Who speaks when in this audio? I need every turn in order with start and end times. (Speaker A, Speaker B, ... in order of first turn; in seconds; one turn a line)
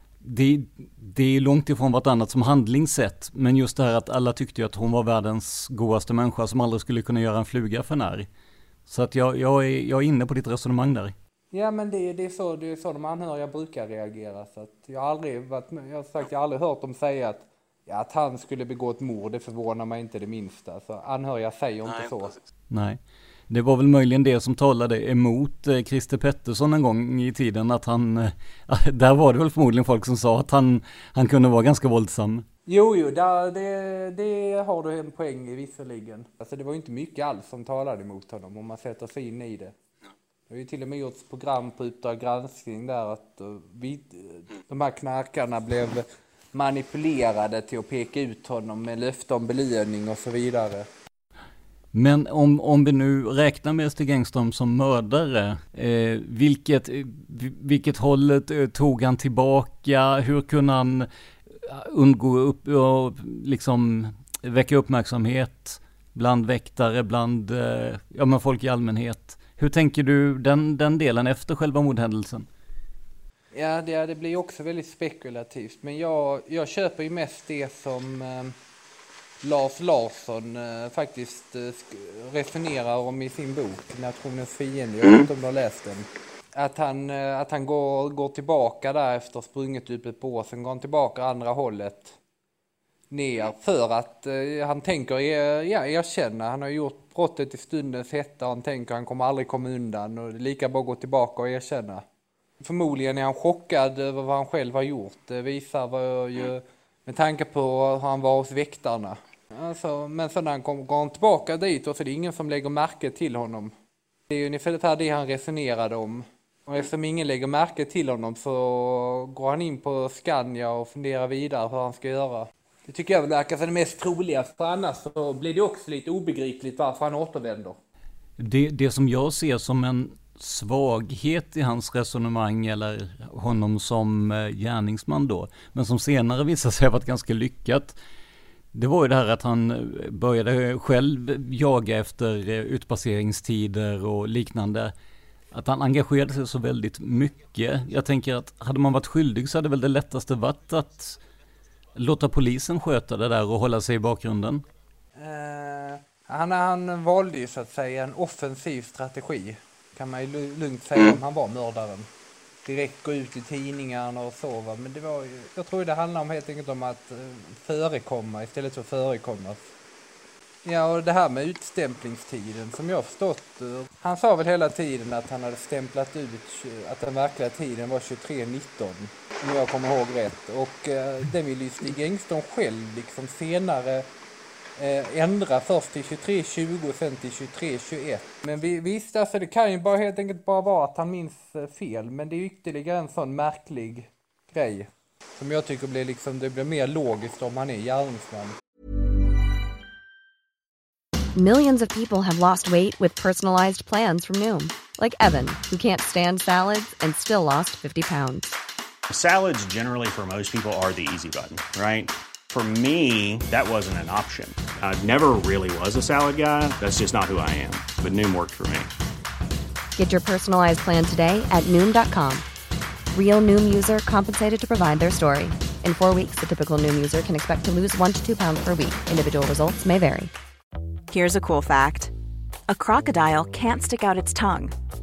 Speaker A: 0.2-8.3
Speaker A: 8.9-11.1
Speaker B: 11.5-22.3
Speaker A: 22.7-32.4
Speaker B: 32.7-39.7
Speaker B: 40.5-50.9
Speaker A: 51.9-61.1
Speaker A: 61.6-72.5
Speaker B: 73.5-78.5
Speaker B: 79.4-92.2
Speaker B: 93.1-102.0
Speaker B: 102.6-113.7
Speaker B: 114.3-127.8
Speaker A: 128.4-138.0
Speaker A: 138.7-144.9
Speaker A: 145.5-151.2
Speaker A: 151.9-154.6
Speaker B: 155.2-162.1
Speaker B: 162.6-169.7
Speaker B: 170.6-184.1
Speaker B: 184.8-198.6
Speaker C: 201.3-208.5
Speaker D: 209.1-218.9
Speaker C: 220.0-222.4
Speaker C: 223.1-230.3
Speaker E: 231.1-232.1
Speaker E: 232.7-234.7